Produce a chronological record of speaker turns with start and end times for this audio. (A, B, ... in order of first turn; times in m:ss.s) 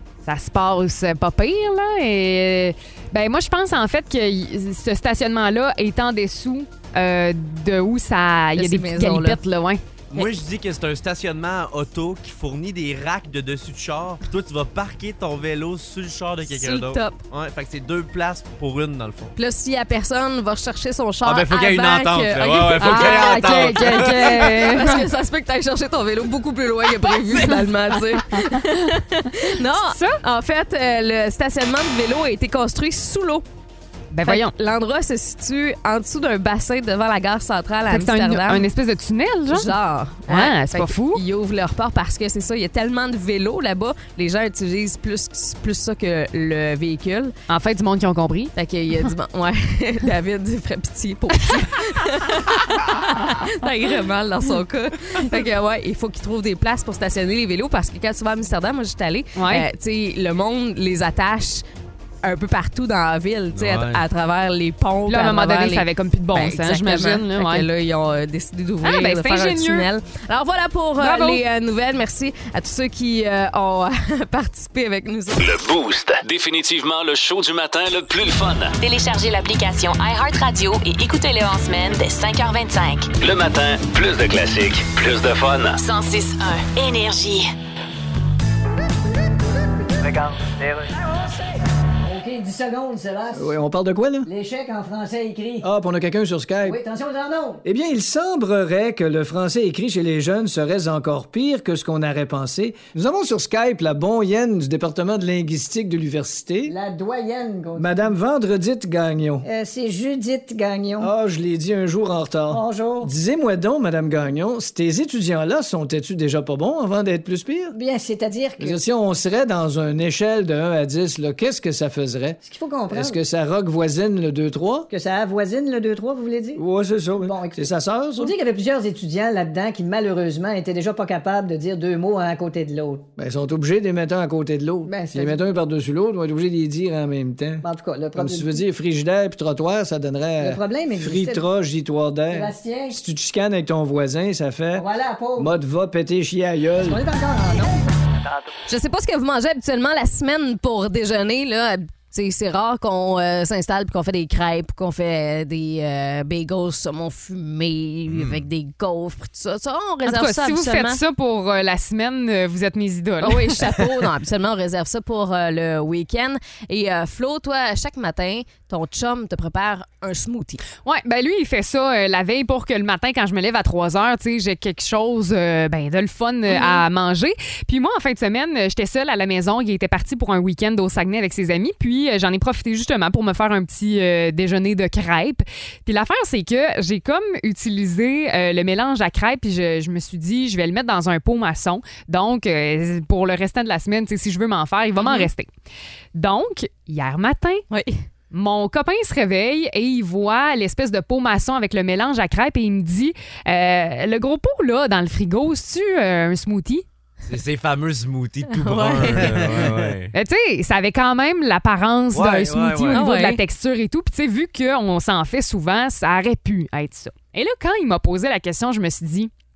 0:00.2-0:09.8 A
0:08.5-0:09.4 B
0:10.1-0:19.3 C
0:16.4-0:17.2 B
0:19.4-0:33.4 B
0:21.2-0:24.8 C
0:22.8-0:25.1 A
0:29.8-0:30.2 A
0:34.1-0:34.5 A
0:34.2-0:38.7 B
0:37.9-0:39.7 A
0:39.5-0:47.4 B
0:40.3-0:41.2 A
0:47.5-0:48.5 A
0:48.5-1:01.6 B
0:59.4-0:59.6 A
1:02.2-1:15.5 B
1:03.5-1:04.0 C
1:05.1-1:07.7 A
1:08.8-1:09.9 A
1:11.0-1:11.4 A
1:15.4-1:18.7 D
1:18.8-1:23.1 E
1:23.2-1:25.8 D
1:25.8-1:27.5 E
1:30.0-1:31.0 F
1:32.0-1:33.5 F
1:33.3-1:34.3 G
1:34.2-1:35.6 F
1:35.6-1:36.8 G
1:36.6-1:37.6 F
1:37.6-1:46.7 G
1:46.7-1:48.1 F
1:47.8-1:49.4 G
1:49.4-1:51.1 F
1:51.0-1:57.7 G
1:52.5-1:53.1 F
1:57.7-1:58.8 F
1:58.6-2:02.4 G
2:02.4-2:03.2 F
2:02.9-2:04.9 G
2:04.9-2:06.6 F
2:06.6-2:08.3 G
2:07.2-2:13.1 F
2:13.2-2:17.6 G
2:14.8-2:15.5 F
2:17.6-2:18.6 F
2:18.2-2:27.0 G
2:20.4-2:21.4 F
2:22.3-2:23.0 F
2:24.7-2:25.5 F
2:26.8-2:28.1 F
2:28.7-2:41.0 B
2:40.0-2:43.8 A
2:43.2-2:50.6 B
2:50.8-3:15.5 A
2:56.5-2:56.8 B
3:15.0-3:15.3 B
3:16.1-3:17.6 A
3:17.7-3:18.0 B
3:18.3-3:26.8 A
3:27.2-3:30.1 C
3:28.5-3:29.7 B
3:30.1-3:39.3 A
3:32.1-3:33.0 C
3:32.9-3:33.4 B